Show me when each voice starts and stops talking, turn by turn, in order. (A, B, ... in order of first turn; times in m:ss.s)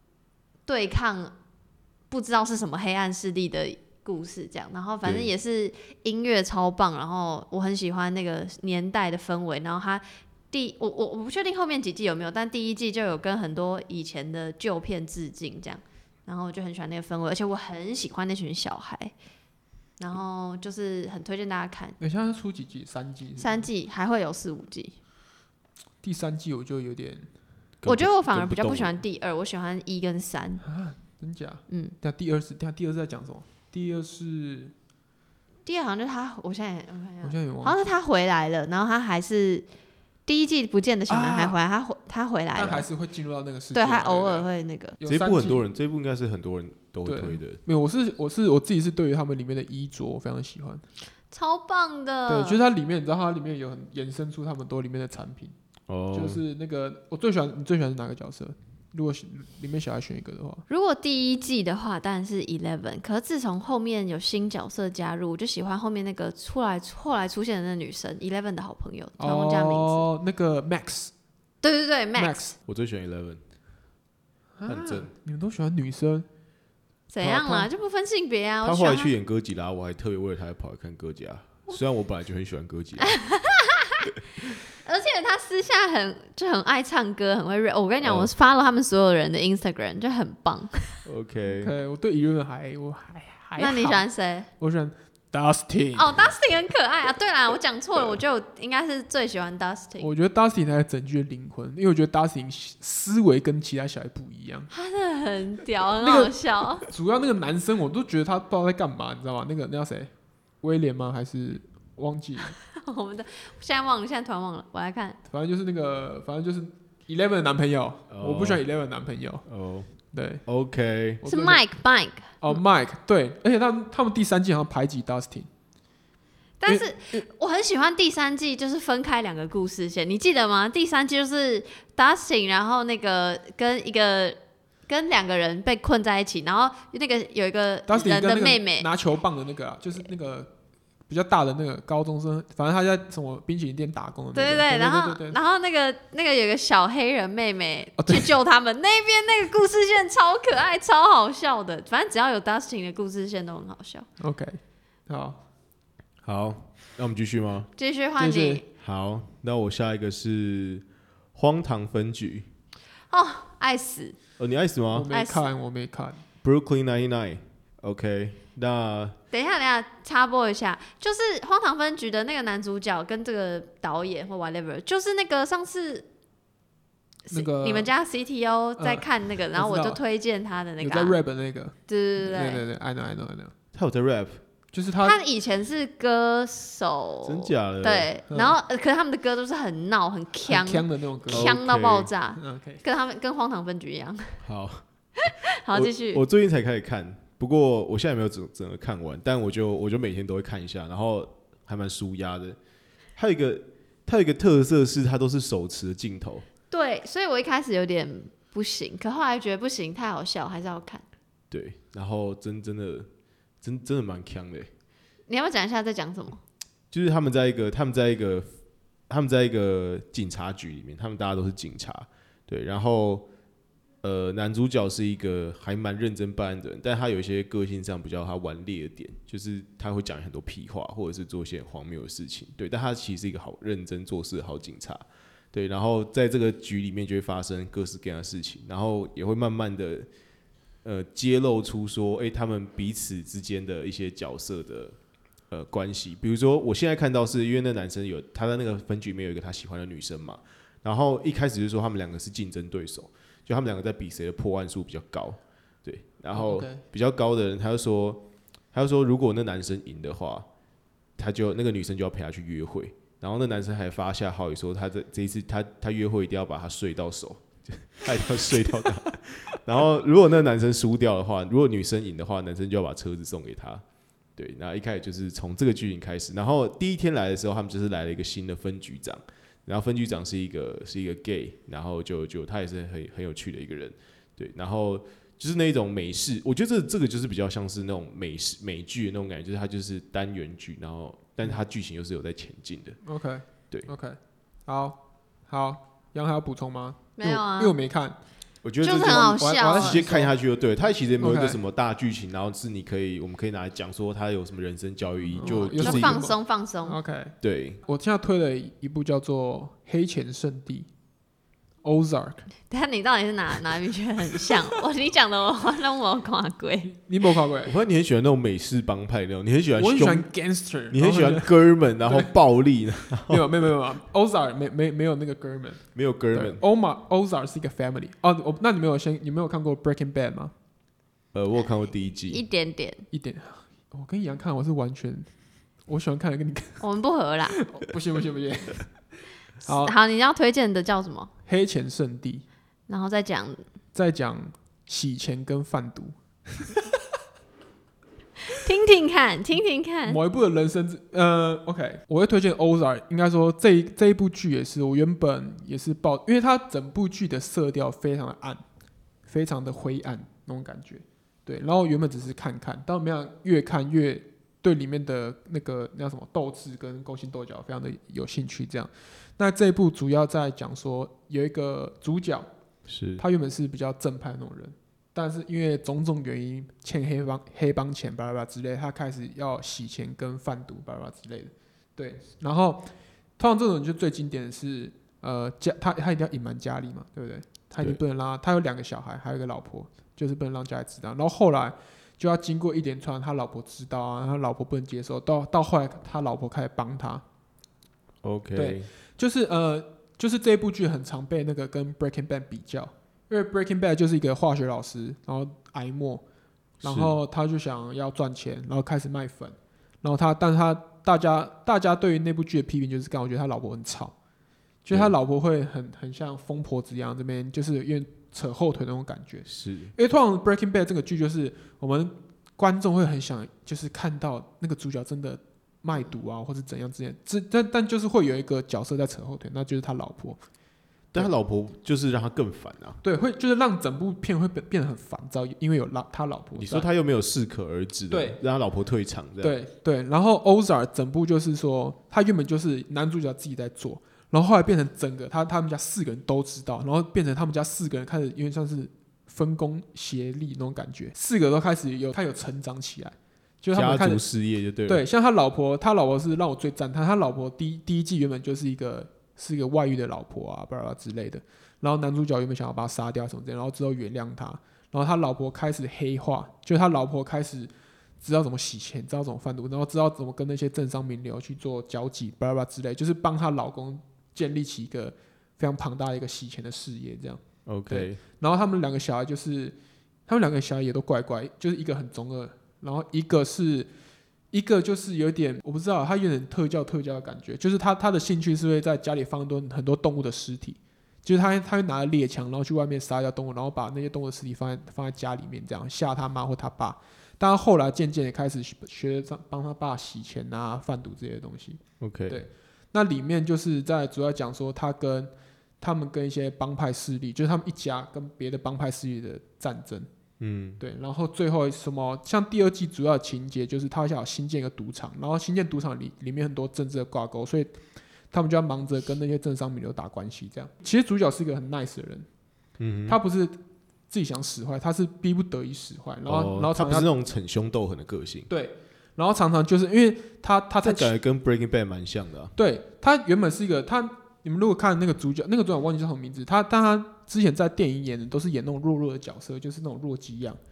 0:00.6-0:01.3 A
0:02.1-0:19.1 A
0:05.0-0:05.3 B
0:20.0-0:22.0 A
0:22.0-0:23.7 C
0:23.4-0:24.9 A
0:26.0-0:27.3 C
0:27.8-0:29.0 B
0:27.8-0:30.6 A
0:30.6-0:34.7 C
0:31.7-0:31.9 A
0:35.6-0:39.6 A
0:37.2-0:37.9 C
0:40.2-0:42.8 A
0:41.1-0:41.6 C
0:42.5-0:44.5 C
0:43.7-0:45.0 A
0:45.0-0:45.6 C
0:45.0-0:47.6 B
0:47.0-0:50.8 C
0:51.3-0:52.6 A
0:52.3-0:55.5 C
0:55.9-0:56.4 B
0:56.1-1:00.6 C
1:00.7-1:10.0 A
1:09.2-1:11.1 C
1:11.6-1:12.4 A
1:12.1-1:12.6 C
1:12.6-1:13.4 B
1:14.6-1:16.3 C
1:14.6-1:15.1 B
1:17.1-1:19.1 A
1:17.2-1:17.7 C
1:18.6-1:23.2 B
1:23.0-1:24.1 A
1:24.8-1:31.0 A
1:28.0-1:28.3 B
1:31.0-1:31.7 B
1:31.6-1:34.0 C
1:33.6-1:34.5 A
1:34.6-1:36.1 C
1:35.9-1:40.1 A
1:40.0-1:44.7 C
1:44.7-1:46.9 A
1:46.0-1:50.1 C
1:50.6-1:52.6 C
1:52.7-1:55.2 A
1:55.3-1:59.4 C
1:58.1-1:58.6 B
1:59.4-1:59.9 B
2:00.1-2:00.4 C
2:00.4-2:01.2 B
2:01.2-2:01.6 C
2:01.2-2:02.3 A
2:02.4-2:05.5 C
2:06.6-2:14.4 A
2:06.6-2:07.2 C
2:14.9-2:18.9 A
2:17.9-2:20.5 C
2:21.1-2:25.4 C
2:24.3-2:34.0 A
2:28.0-2:28.3 C
2:34.2-2:35.4 C
2:36.2-2:37.7 B
2:37.8-2:38.6 A
2:38.2-2:38.6 C
2:38.8-2:42.5 B
2:43.1-2:44.2 A
2:44.4-2:45.1 B
2:44.9-2:46.2 C
2:45.1-2:45.5 A
2:46.4-2:49.2 B
2:49.3-2:56.0 A
2:57.3-3:01.2 A
2:57.3-2:57.9 C
2:58.8-3:00.0 C
3:00.8-3:03.5 C
3:01.9-3:02.6 A
3:03.7-3:04.4 B
3:04.7-3:05.2 C
3:05.0-3:14.4 A
3:07.2-3:08.1 B
3:08.3-3:08.6 C
3:10.4-3:11.6 C
3:11.3-3:12.1 B
3:12.3-3:12.8 C
3:14.4-3:14.8 B
3:15.2-3:16.2 A
3:15.7-3:22.6 B
3:23.2-3:26.5 B
3:26.7-3:31.0 A
3:31.5-3:33.1 B
3:33.6-3:34.7 B
3:35.3-3:36.4 A
3:36.9-3:38.5 B
3:39.1-3:43.3 B
3:44.0-4:00.1 B
4:00.8-4:05.0 B
4:05.5-4:20.5 B
4:16.3-4:16.8 C
4:21.2-4:33.8 B
4:34.4-4:53.0 B
4:53.0-4:58.2 C
4:57.2-4:57.7 A
4:58.6-5:06.2 B
4:58.8-5:00.0 A
4:58.8-5:00.3 C
5:01.2-5:01.6 C
5:05.3-5:10.9 C
5:05.4-5:07.0 A
5:07.4-5:07.8 B
5:11.8-5:12.5 C
5:12.7-5:16.9 A
5:16.8-5:17.7 C
5:17.6-5:20.3 B
5:19.8-5:22.3 C
5:20.9-5:23.6 B
5:23.1-5:30.5 C
5:25.9-5:26.6 B
5:31.3-5:32.4 B
5:32.3-5:33.0 A
5:33.1-5:35.3 C
5:35.9-5:36.8 C
5:36.8-5:37.6 A
5:37.5-5:38.9 C
5:39.6-5:39.9 C
5:39.6-5:41.3 A
5:41.4-5:42.4 C
5:42.9-5:43.6 A
5:43.9-5:46.9 C
5:48.5-5:50.2 A
5:50.0-5:58.6 C
5:59.3-6:12.5 C
6:12.9-6:13.2 B
6:13.2-6:37.2 C
6:38.2-6:38.9 B
6:38.5-6:46.2 C
6:46.8-6:54.1 C
6:46.8-6:47.2 B
6:54.8-7:10.4 C
6:59.5-6:59.9 B
7:11.1-7:13.0 B
7:13.0-7:16.9 C
7:16.5-7:19.6 B
7:18.1-7:18.4 C
7:19.4-7:34.2 C
7:33.7-7:35.0 B
7:34.8-7:47.7 C
7:48.2-8:03.9 C
7:57.6-7:58.2 B
8:04.5-8:30.1 C
8:22.0-8:22.4 B
8:30.4-8:30.8 B
8:30.8-8:37.8 C
8:38.3-8:42.3 C
8:42.8-8:43.2 B
8:43.1-8:43.6 C
8:44.1-8:47.1 C
8:46.2-8:48.5 B
8:48.5-8:51.1 C
8:50.8-8:52.5 B
8:52.6-9:00.6 C